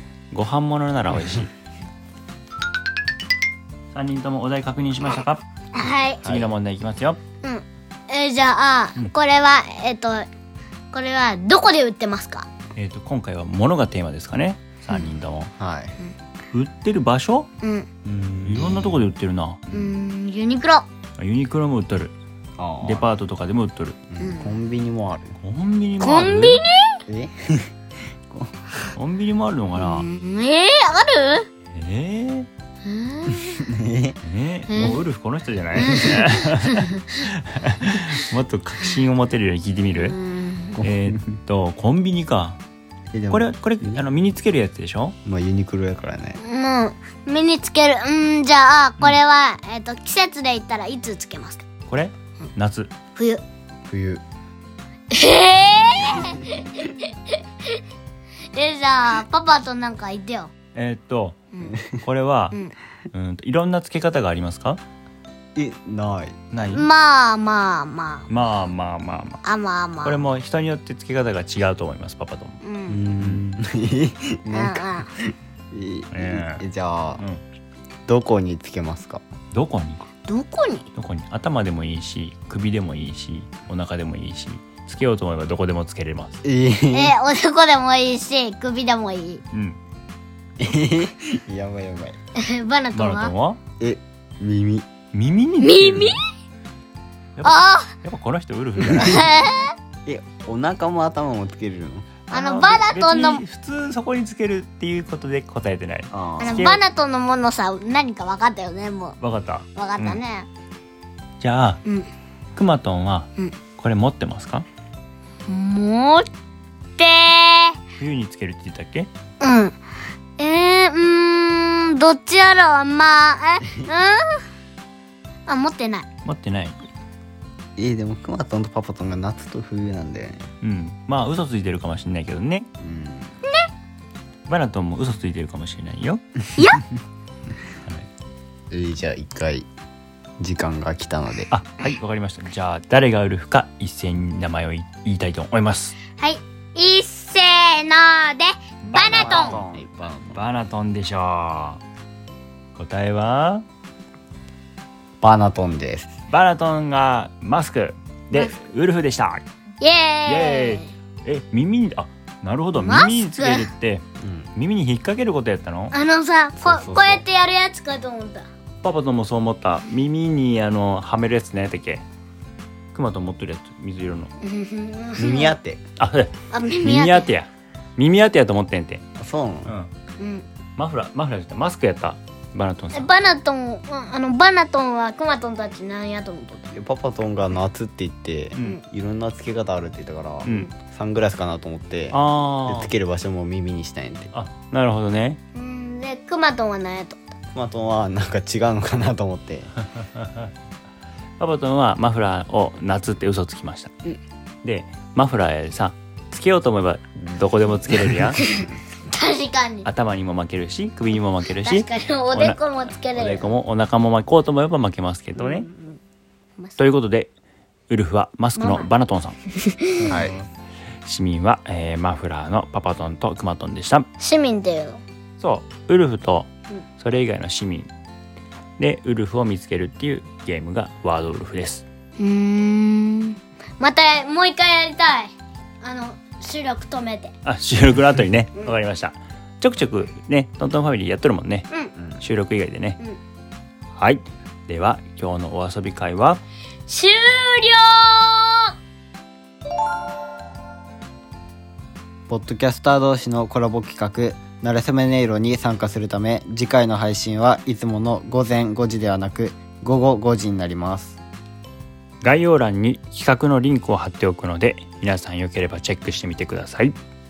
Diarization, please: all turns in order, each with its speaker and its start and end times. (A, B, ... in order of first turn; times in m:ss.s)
0:00.3-0:01.5 A
0:03.9-0:05.4 A
0:05.7-0:06.3 B
0:06.2-0:06.5 C
0:06.2-0:07.2 A
0:07.4-0:10.3 B
0:10.9-0:12.5 B
0:12.8-0:15.5 A
0:15.6-0:16.0 C
0:16.5-0:17.5 A
0:17.6-0:17.9 B
0:18.0-0:19.1 C
0:18.4-0:19.6 A
0:19.7-0:20.9 B
0:21.2-0:22.1 A
0:22.6-0:23.1 C
0:22.8-0:24.0 A
0:24.1-0:25.4 C
0:24.2-0:24.6 B
0:25.4-0:26.6 A
0:26.0-0:27.0 B
0:27.1-0:27.7 C
0:28.3-0:28.8 C
0:29.0-0:30.1 A
0:29.8-0:31.5 B
0:31.7-0:32.5 A
0:32.8-0:33.7 B
0:33.6-0:34.2 C
0:34.2-0:40.2 A
0:34.7-0:35.0 B
0:35.8-0:37.2 B
0:40.0-0:40.8 B
0:40.8-0:42.6 A
0:43.1-0:44.0 C
0:43.3-0:45.2 A
0:45.2-0:46.4 C
0:46.4-0:51.6 B
0:51.9-0:52.9 A
0:53.2-0:53.4 B
0:53.9-0:54.2 C
0:55.1-0:57.8 B
0:58.5-1:00.5 B
1:00.8-1:01.4 A
1:01.5-1:01.8 B
1:02.0-1:02.6 A
1:03.1-1:04.8 A
1:05.6-1:06.4 C
1:06.5-1:06.9 A
1:06.6-1:08.3 B
1:08.3-1:09.4 A
1:09.4-1:10.3 B
1:10.0-1:12.6 A
1:12.6-1:13.0 B
1:12.9-1:17.2 C
1:14.5-1:15.1 B
1:16.1-1:16.6 A
1:17.2-1:17.4 A
1:18.1-1:19.2 C
1:19.5-1:20.1 A
1:20.2-1:20.9 B
1:21.0-1:26.4 A
1:26.4-1:27.1 C
1:26.9-1:29.4 B
1:29.5-1:29.8 A
1:30.6-1:32.2 C
1:32.4-1:33.3 B
1:32.9-1:33.6 A
1:33.8-1:34.9 C
1:35.1-1:36.2 A
1:35.6-1:36.2 B
1:37.4-1:39.3 A
1:37.4-1:37.9 B
1:38.9-1:39.7 B
1:40.1-1:42.1 C
1:42.3-1:46.8 A
1:42.3-1:43.4 B
1:46.1-1:46.7 C
1:46.4-1:49.2 B
1:49.2-1:50.2 A
1:49.8-1:50.5 B
1:51.4-1:51.8 A
1:51.8-1:52.1 B
1:52.6-1:54.7 A
1:55.5-1:56.3 B
1:57.0-1:57.8 B
1:58.0-1:59.1 A
1:59.4-1:59.8 B
2:00.4-2:04.4 B
2:05.5-2:06.1 B
2:06.2-2:06.8 A
2:07.8-2:10.5 C
2:10.6-2:12.7 A
2:12.8-2:13.4 C
2:14.5-2:16.2 A
2:16.6-2:16.8 B
2:18.7-2:19.7 C
2:20.4-2:21.5 C
2:21.5-2:26.0 A
2:26.2-2:29.6 B
2:28.8-2:30.4 C
2:28.9-2:31.8 A
2:32.8-2:33.6 A
2:35.2-2:36.1 C
2:36.3-2:39.4 A
2:39.8-2:40.9 B
2:40.3-2:44.0 A
2:42.8-2:43.7 B
2:44.2-2:44.5 C
2:44.6-2:46.0 A
2:45.9-2:48.5 B
2:46.6-2:47.2 C
2:48.8-2:52.0 A
2:52.9-2:54.3 A
2:54.4-2:55.6 B
2:55.2-2:55.8 C
2:56.0-2:59.0 A
2:56.5-2:57.3 B
2:59.2-2:59.8 C
3:00.2-3:00.4 B
3:00.8-3:03.1 A
3:02.9-3:06.7 B
3:06.7-3:14.3 C
3:08.6-3:08.8 A
3:10.4-3:10.7 A
3:12.1-3:12.9 A
3:14.3-3:15.4 A
3:15.6-3:17.2 B
3:17.6-3:19.7 C
3:20.0-3:20.5 A
3:21.4-3:23.9 A
3:24.6-3:28.4 A
3:28.3-3:29.9 B
3:29.8-3:32.6 A
3:31.6-3:33.5 B
3:33.1-3:35.7 A
3:35.4-3:36.0 B
3:36.8-3:37.3 A
3:37.9-3:39.4 A
3:38.6-3:38.9 B
3:39.5-3:40.3 B
3:40.0-3:40.5 C
3:41.0-3:44.1 A
3:44.2-3:45.0 B
3:45.4-3:47.9 A
3:48.8-3:51.8 A
3:52.2-3:57.4 B
3:57.4-4:01.7 A
4:02.0-4:02.2 C
4:02.2-4:03.0 A
4:04.0-4:06.4 A
4:06.9-4:08.7 B
4:12.3-4:21.2 C
4:22.2-4:27.0 A